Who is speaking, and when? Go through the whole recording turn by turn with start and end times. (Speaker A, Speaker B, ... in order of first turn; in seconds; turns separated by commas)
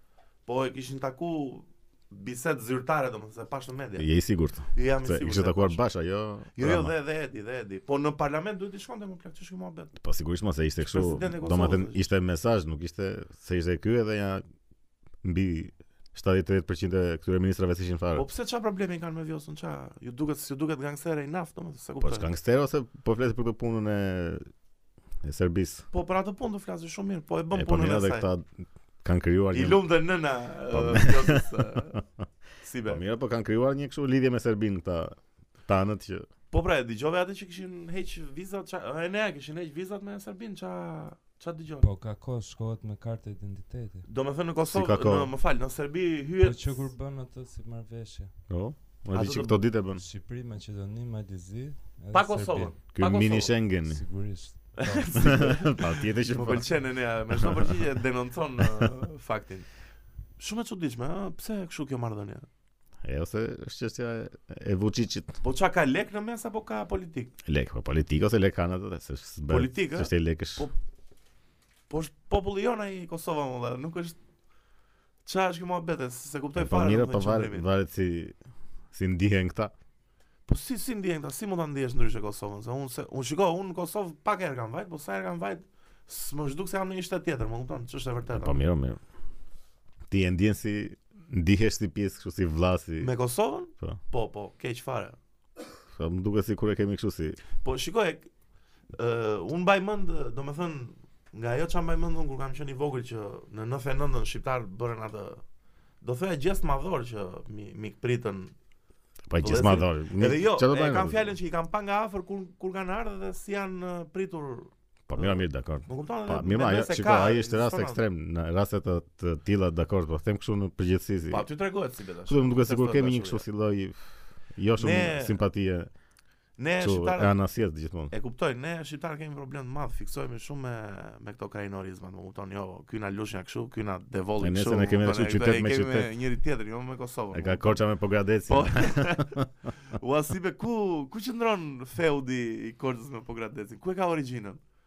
Speaker A: 0.5-4.1, Speaker B: 4.0-6.9, Speaker A: 4.7-5.8, Speaker A: 6.5-9.9, Speaker B: 10.0-14.4, Speaker A: 10.8-12.1, Speaker B: 15.2-18.3, Speaker A: 18.1-22.3, Speaker B: 22.0-24.5, Speaker B: 25.2-25.9, Speaker A: 25.9-28.3, Speaker B: 27.5-28.5, Speaker B: 29.0-29.8, Speaker A: 29.5-32.0, Speaker B: 30.7-31.5, Speaker A: 32.6-33.0, Speaker B: 32.9-36.3, Speaker A: 36.5-41.9, Speaker C: 41.8-44.1, Speaker A: 44.0-46.9, Speaker B: 44.7-45.3, Speaker C: 46.4-48.4, Speaker B: 48.5-50.0, Speaker A: 49.1-49.6, Speaker C: 49.9-52.8, Speaker A: 52.1-53.5, Speaker B: 52.9-54.0, Speaker C: 53.9-55.6, Speaker A: 54.8-59.7, Speaker B: 55.2-56.7, Speaker B: 57.3-57.7, Speaker A: 60.4-62.5, Speaker B: 63.0-65.4, Speaker A: 65.4-67.3, Speaker B: 67.5-70.7, Speaker A: 69.5-70.7, Speaker A: 71.9-74.2, Speaker A: 75.3-77.7, Speaker B: 76.6-78.3, Speaker B: 78.9-79.7, Speaker A: 80.5-88.6, Speaker B: 88.3-89.0, Speaker B: 90.1-93.1, Speaker A: 93.0-95.2, Speaker B: 95.9-97.4, Speaker A: 97.6-98.3, Speaker A: 98.9-105.4, Speaker A: 106.0-108.5, Speaker B: 109.3-111.3, Speaker A: 109.4-118.0, Speaker B: 115.1-121.5, Speaker A: 121.3-123.4, Speaker B: 122.3-125.9, Speaker A: 124.8-125.4, Speaker A: 126.6-127.4, Speaker B: 126.8-128.1, Speaker A: 128.1-137.8, Speaker B: 134.4-136.1, Speaker B: 137.3-139.5, Speaker A: 138.5-144.6